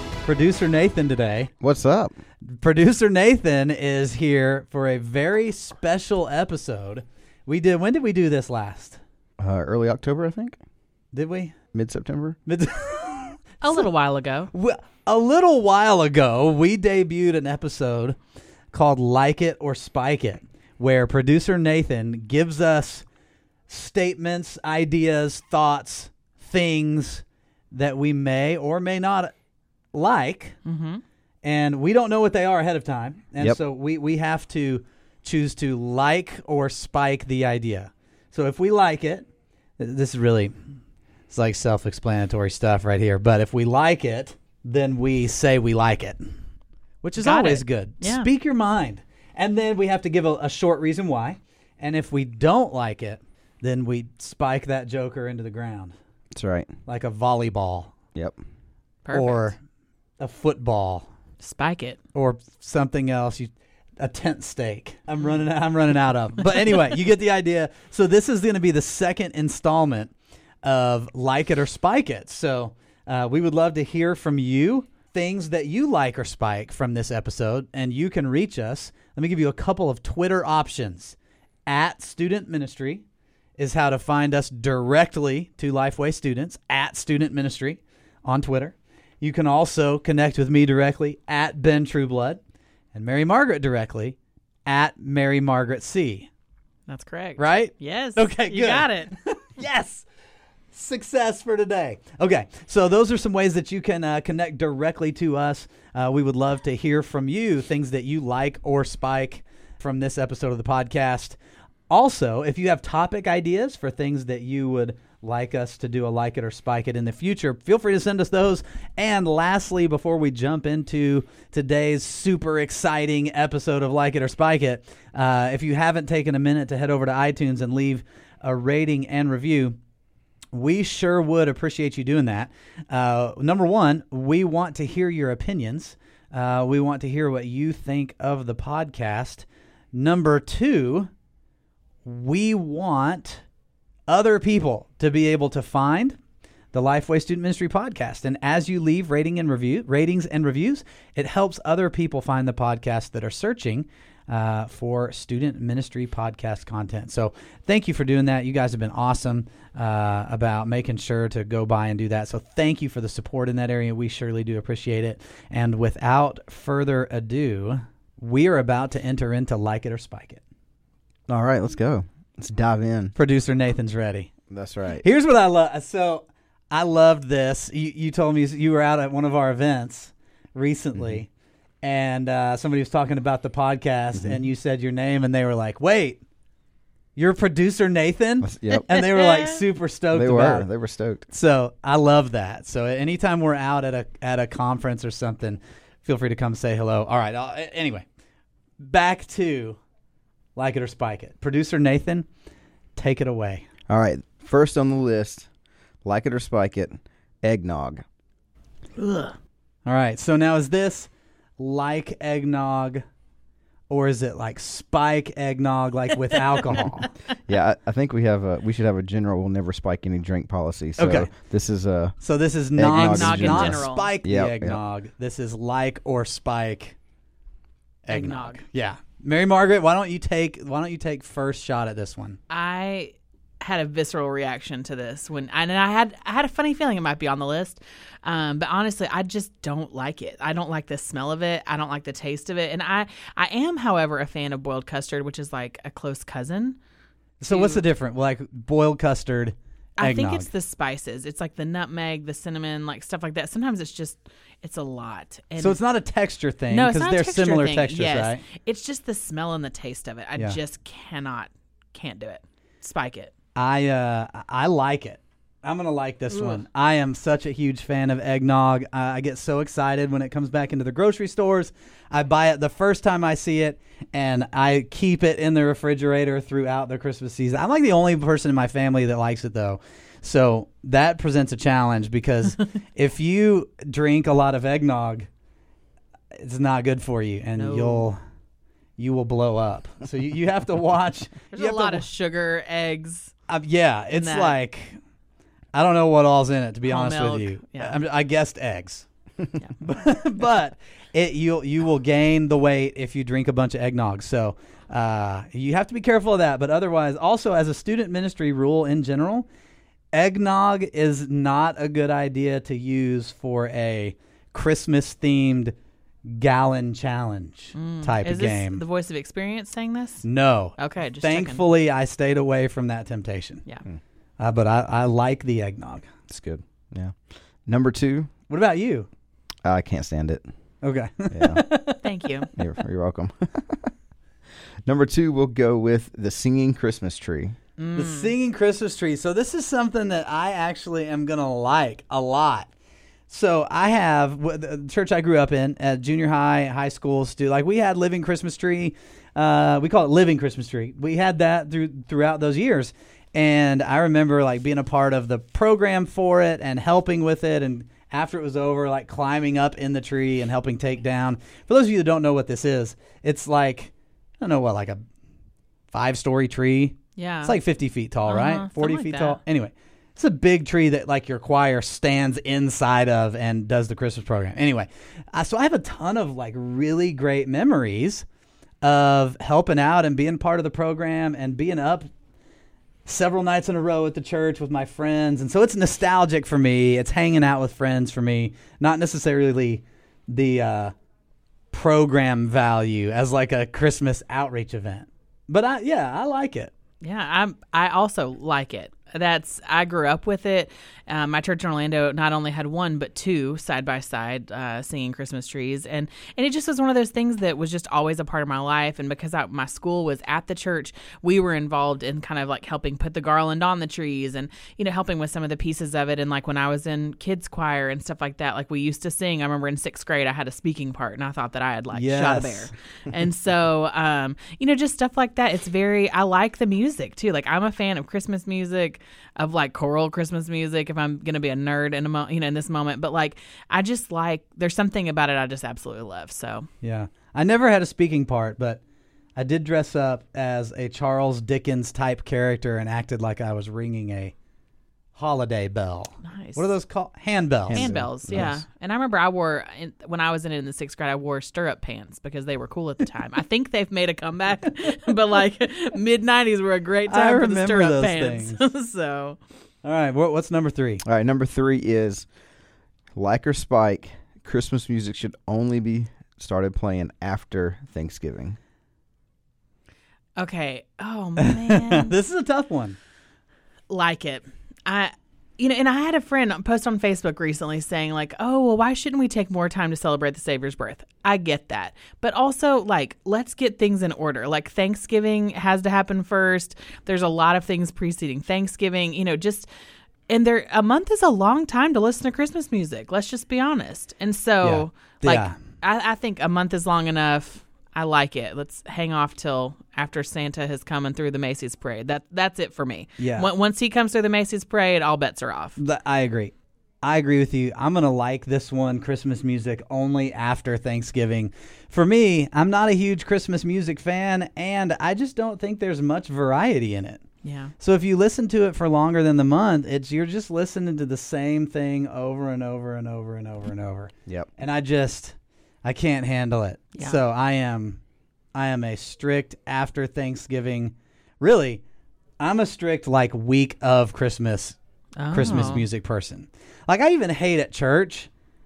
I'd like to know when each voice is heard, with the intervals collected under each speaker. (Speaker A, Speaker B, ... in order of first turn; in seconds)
Speaker A: 0.2-1.5, 2.4-9.0, 11.1-11.6, 12.5-13.9, 14.5-18.2, 18.7-23.0, 23.7-29.3, 29.9-30.6, 31.4-39.3, 39.8-40.5, 41.3-46.3, 47.0-55.9, 56.9-57.9, 59.1-59.6, 60.2-61.1, 62.1-83.0, 83.6-92.4, 92.9-96.3, 97.4-100.1, 100.7-111.4, 111.9-129.8, 130.5-141.1, 142.1-143.4, 144.1-146.2, 146.7-170.4, 173.2-174.3, 175.0-181.3, 181.8-186.2, 187.2-190.7, 191.3-198.1, 198.8-199.8, 200.6-202.3, 203.0-203.7, 209.8-213.0, 213.9-217.1, 221.0-221.3, 222.2-227.0, 228.1-232.4, 247.4-250.5, 255.6-258.4, 263.6-285.3, 286.4-288.2, 289.0-292.1, 293.5-295.0, 295.7-299.1, 299.8-309.5, 310.1-315.7, 316.3-318.8, 320.2-323.6, 324.4-326.1, 328.5-329.1, 330.8-332.0, 337.9-342.7, 343.3-365.0, 365.9-378.2, 378.8-382.1, 383.1-390.9, 391.7-396.7, 421.9-422.7, 436.8-438.8, 439.4-444.3, 445.1-448.5, 457.1-458.6, 459.8-461.0, 471.4-473.0, 494.6-495.6, 503.2-503.5, 505.8-517.2, 517.8-528.0, 528.5-531.8, 532.4-534.8, 535.3-538.3
Speaker B: 1.6-2.1, 9.4-10.6, 11.7-12.4, 56.3-56.7, 171.3-173.2, 174.5-175.0, 181.0-181.2, 184.2-184.4, 188.4-188.9, 190.1-191.2, 203.9-205.5, 206.1-208.0, 216.8-222.2, 222.8-224.8, 326.3-327.1, 327.7-328.3, 329.6-330.4, 331.3-331.7, 332.6-333.9, 334.9-337.6, 447.7-448.6, 461.1-462.3, 463.1-468.6
Speaker C: 13.6-14.5, 30.6-31.0, 47.2-48.3, 59.0-59.5, 61.4-62.0, 96.9-99.1, 188.7-189.7, 209.0-209.3, 216.3-216.8, 222.9-224.1, 228.1-228.6, 232.5-246.8, 247.5-247.8, 250.0-255.8, 256.7-263.3, 266.3-266.6, 287.6-288.1, 291.5-293.3, 294.1-294.6, 296.9-298.0, 317.8-320.2, 320.8-321.7, 332.0-332.5, 337.8-338.3, 367.2-367.6, 368.2-369.4, 397.0-436.7, 446.2-446.7, 447.7-459.4, 470.4-472.1, 473.9-489.7, 490.3-505.8, 517.4-517.7, 535.2-535.9